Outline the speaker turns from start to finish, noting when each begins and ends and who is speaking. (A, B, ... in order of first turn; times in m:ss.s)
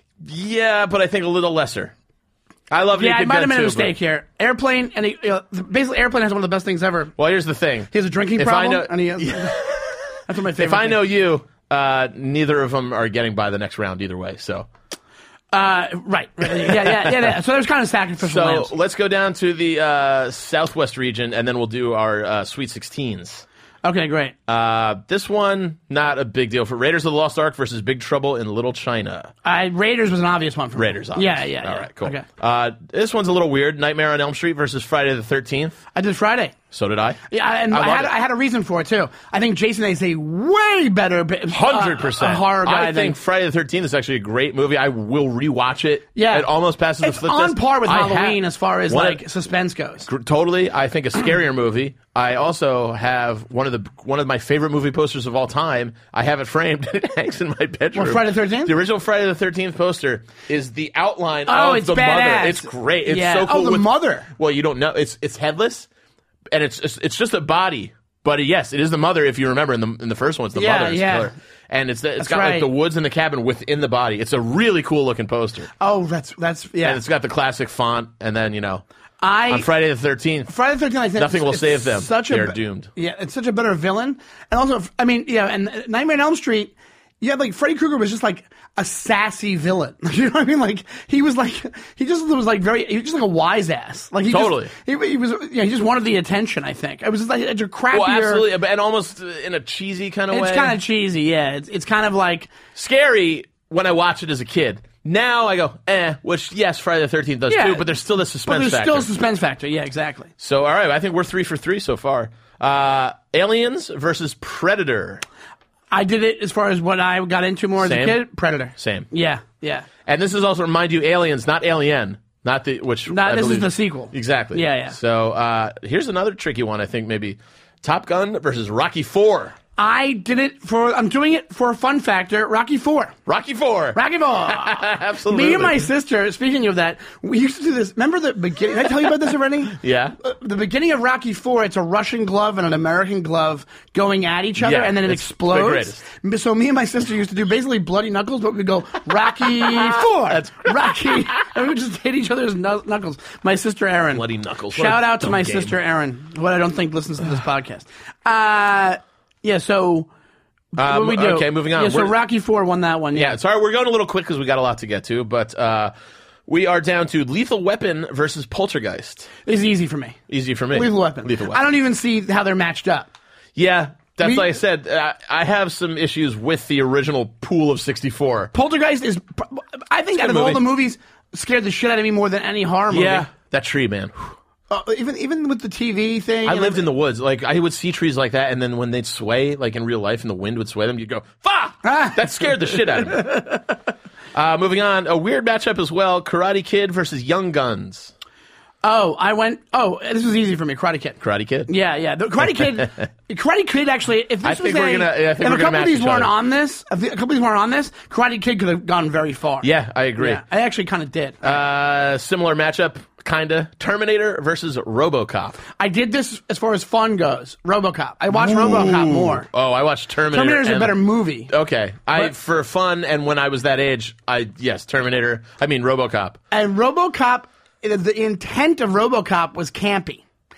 0:00.2-0:01.9 A
0:02.7-0:04.0 A
0:03.0-0:07.1 B
0:07.2-0:10.0 A
0:07.9-0:09.7 B
0:10.3-0:11.0 B
0:10.6-0:14.7 A
0:15.5-0:18.7 B
0:16.4-0:17.4 A
0:18.2-0:23.4 A
0:23.8-0:24.4 B
0:24.5-0:29.3 A
0:29.4-0:32.3 B
0:30.8-0:35.8 A
0:35.9-0:36.5 B
0:36.7-0:38.1 A
0:37.3-0:43.2 B
0:41.5-0:49.2 A
0:46.2-0:50.1 B
0:50.0-1:05.9 A
0:57.9-0:58.8 B
1:01.5-1:04.3 B
1:06.5-1:15.7 A
1:10.6-1:11.3 B
1:12.2-1:12.7 B
1:15.8-1:17.0 B
1:16.8-1:18.8 A
1:19.2-1:19.7 B
1:19.5-1:20.5 A
1:20.5-1:38.5 B
1:21.2-1:22.9 A
1:34.3-1:34.7 A
1:37.9-1:40.8 A
1:40.3-1:42.5 B
1:42.8-1:49.1 A
1:47.5-1:47.9 B
1:48.4-1:50.3 B
1:50.4-1:55.2 A
1:55.9-1:59.9 B
1:57.8-1:59.1 A
2:00.1-2:09.6 A
2:03.1-2:05.0 B
2:09.8-2:13.2 B
2:13.3-2:15.9 A
2:13.9-2:40.1 B
2:19.7-2:20.2 A
2:24.6-2:26.0 A
2:29.4-2:31.4 A
2:34.1-2:35.8 A
2:40.7-2:43.4 B
2:40.8-2:42.2 A
2:43.1-2:45.9 A
2:46.5-2:49.3 A
2:49.5-2:50.2 B
2:50.3-2:51.6 A
2:50.7-2:53.1 B
2:53.6-2:58.5 A
2:54.2-2:54.5 B
2:58.5-3:03.3 B
3:00.2-3:00.6 A
3:02.9-3:04.4 A
3:04.7-3:06.8 B
3:06.4-3:13.4 A
3:11.8-3:13.6 B
3:14.3-3:18.1 A
3:18.8-3:31.6 B
3:21.2-3:21.7 A
3:22.4-3:23.0 A
3:24.4-3:26.3 A
3:29.6-3:30.4 A
3:31.4-3:35.6 A
3:35.8-3:39.5 B
3:38.3-3:46.4 A
3:40.3-3:41.5 B
3:46.5-3:50.2 B